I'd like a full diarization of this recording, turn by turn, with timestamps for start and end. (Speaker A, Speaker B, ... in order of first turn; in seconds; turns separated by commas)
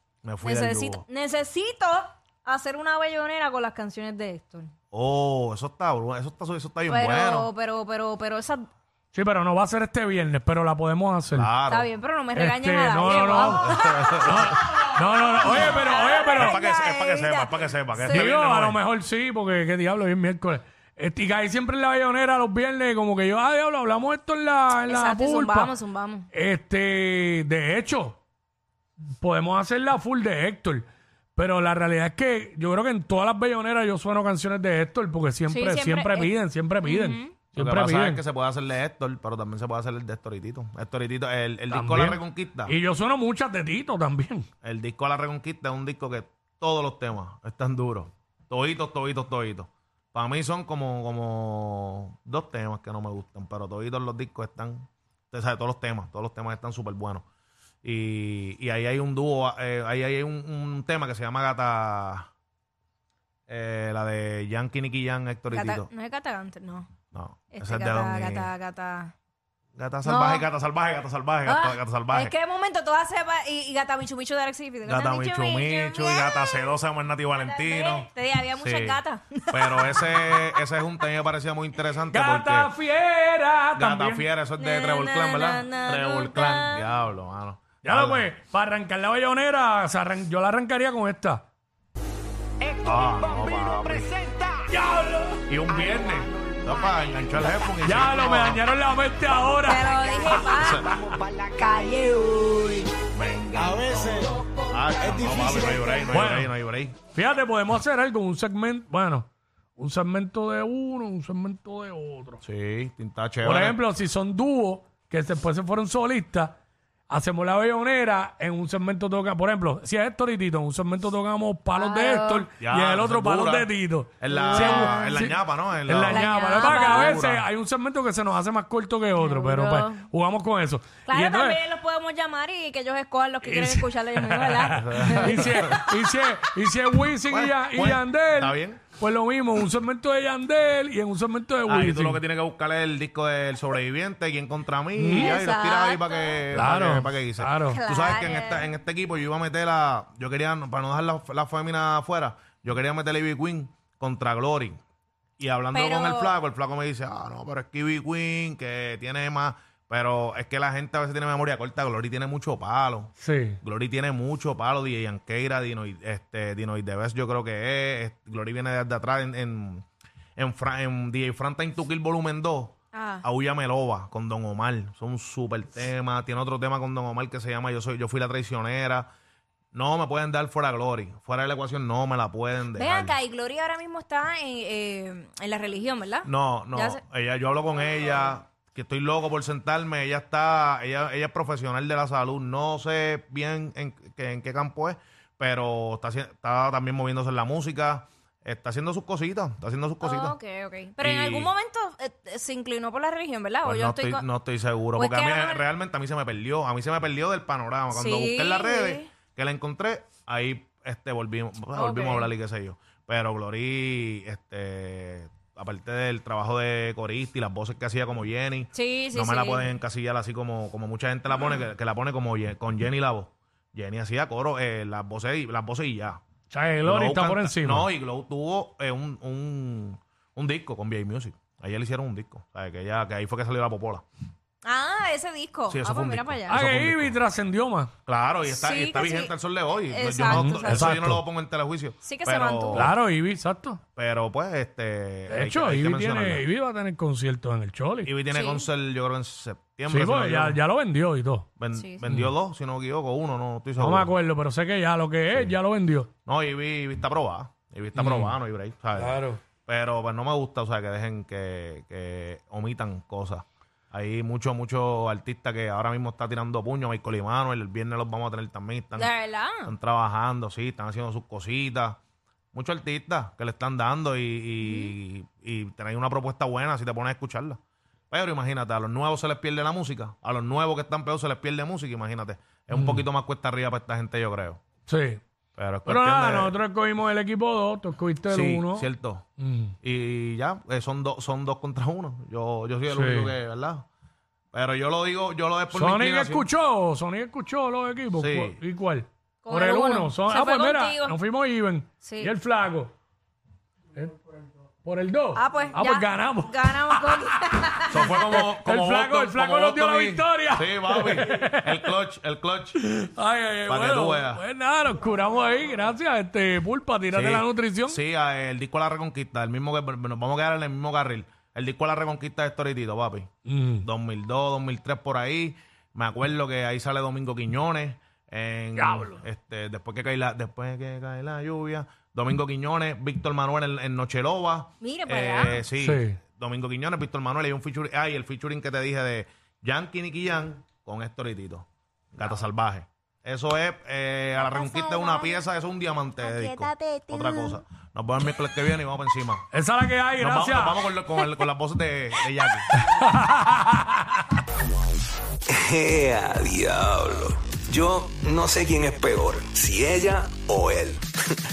Speaker A: 0.2-1.0, Speaker B: 0.4-4.7, Speaker A: 4.9-7.5, Speaker B: 6.9-8.7, Speaker C: 9.1-11.5, Speaker A: 11.3-11.9, Speaker B: 11.7-18.3, Speaker C: 12.3-16.6, Speaker A: 13.4-14.6, Speaker A: 16.3-18.8, Speaker C: 18.1-25.7, Speaker B: 24.9-26.3, Speaker C: 26.3-28.2, Speaker C: 29.2-38.2, Speaker B: 35.5-37.3, Speaker A: 37.5-42.7, Speaker C: 41.7-44.5, Speaker A: 44.6-57.2, Speaker A: 57.8-62.3, Speaker A: 63.5-65.9, Speaker B: 65.5-66.9, Speaker A: 67.1-68.5, Speaker B: 67.5-69.1, Speaker A: 69.8-72.3, Speaker B: 70.0-70.5, Speaker B: 71.5-76.7, Speaker A: 74.8-78.1, Speaker B: 77.3-80.5, Speaker A: 78.6-82.7, Speaker C: 82.1-84.2, Speaker A: 83.8-88.3, Speaker B: 84.6-86.9, Speaker C: 87.8-91.4, Speaker D: 92.6-94.5, Speaker A: 92.8-94.1, Speaker C: 94.7-95.4, Speaker A: 95.5-98.6, Speaker C: 97.8-100.8, Speaker B: 99.6-101.0, Speaker A: 100.6-100.9, Speaker D: 101.2-102.8, Speaker B: 101.5-102.7, Speaker A: 103.1-107.0, Speaker C: 106.1-106.5, Speaker C: 107.1-112.4, Speaker A: 112.4-113.8, Speaker C: 113.4-116.5, Speaker C: 117.1-131.6, Speaker B: 121.8-122.5, Speaker A: 122.6-127.4, Speaker B: 124.3-125.3, Speaker B: 126.0-127.2, Speaker B: 129.2-130.0, Speaker B: 131.1-135.6, Speaker C: 133.4-142.2, Speaker A: 134.7-135.8, Speaker A: 137.3-138.8, Speaker A: 141.7-154.8, Speaker C: 145.0-145.4, Speaker B: 145.1-146.4, Speaker C: 146.5-147.8, Speaker B: 147.7-148.7, Speaker A: 155.4-169.8, Speaker B: 155.7-156.3, Speaker C: 163.2-163.6, Speaker A: 170.4-179.1, Speaker B: 172.9-173.2, Speaker A: 179.7-183.2, Speaker B: 182.7-187.0, Speaker A: 186.2-200.3, Speaker B: 200.0-204.2, Speaker A: 201.0-201.5, Speaker A: 203.6-226.2, Speaker B: 204.9-205.6, Speaker B: 207.9-209.1, Speaker B: 211.8-212.3, Speaker B: 218.7-219.7, Speaker C: 226.5-227.9, Speaker A: 226.8-234.0, Speaker B: 234.6-236.6, Speaker A: 235.7-237.2, Speaker C: 236.5-237.9, Speaker A: 238.1-242.9, Speaker B: 238.5-239.3, Speaker B: 239.9-240.9, Speaker C: 240.2-241.2, Speaker B: 242.0-242.9, Speaker C: 242.7-243.8, Speaker A: 243.9-246.4, Speaker C: 245.3-248.1, Speaker A: 248.0-250.6, Speaker B: 248.3-248.6, Speaker C: 249.9-251.5, Speaker A: 251.6-254.1, Speaker B: 251.7-252.0, Speaker C: 252.0-252.3, Speaker C: 253.8-256.1, Speaker A: 255.3-255.6, Speaker A: 256.2-269.1, Speaker C: 257.9-258.4, Speaker C: 259.0-259.4, Speaker B: 268.9-269.7, Speaker A: 269.6-272.0, Speaker A: 272.5-277.6, Speaker B: 274.6-274.9, Speaker A: 278.1-284.6, Speaker C: 282.7-283.1, Speaker C: 284.9-285.2, Speaker A: 285.6-286.6, Speaker C: 285.9-288.9, Speaker A: 288.3-289.2, Speaker C: 289.4-289.7, Speaker A: 289.8-293.8, Speaker C: 292.9-293.3, Speaker A: 294.5-296.5, Speaker C: 295.7-302.9, Speaker A: 298.2-298.6, Speaker B: 299.4-301.1, Speaker B: 302.0-302.3, Speaker C: 304.8-311.9, Speaker B: 305.3-308.4, Speaker A: 307.9-312.8, Speaker C: 312.7-318.0, Speaker A: 313.7-314.4, Speaker A: 317.1-323.3, Speaker C: 323.4-323.8, Speaker A: 323.8-349.4, Speaker C: 328.8-329.2, Speaker B: 334.8-335.6, Speaker C: 335.8-336.1, Speaker E: 344.5-345.3, Speaker E: 346.2-347.6, Speaker C: 349.5-350.8, Speaker A: 350.2-352.7, Speaker C: 352.7-354.2, Speaker E: 355.5-361.1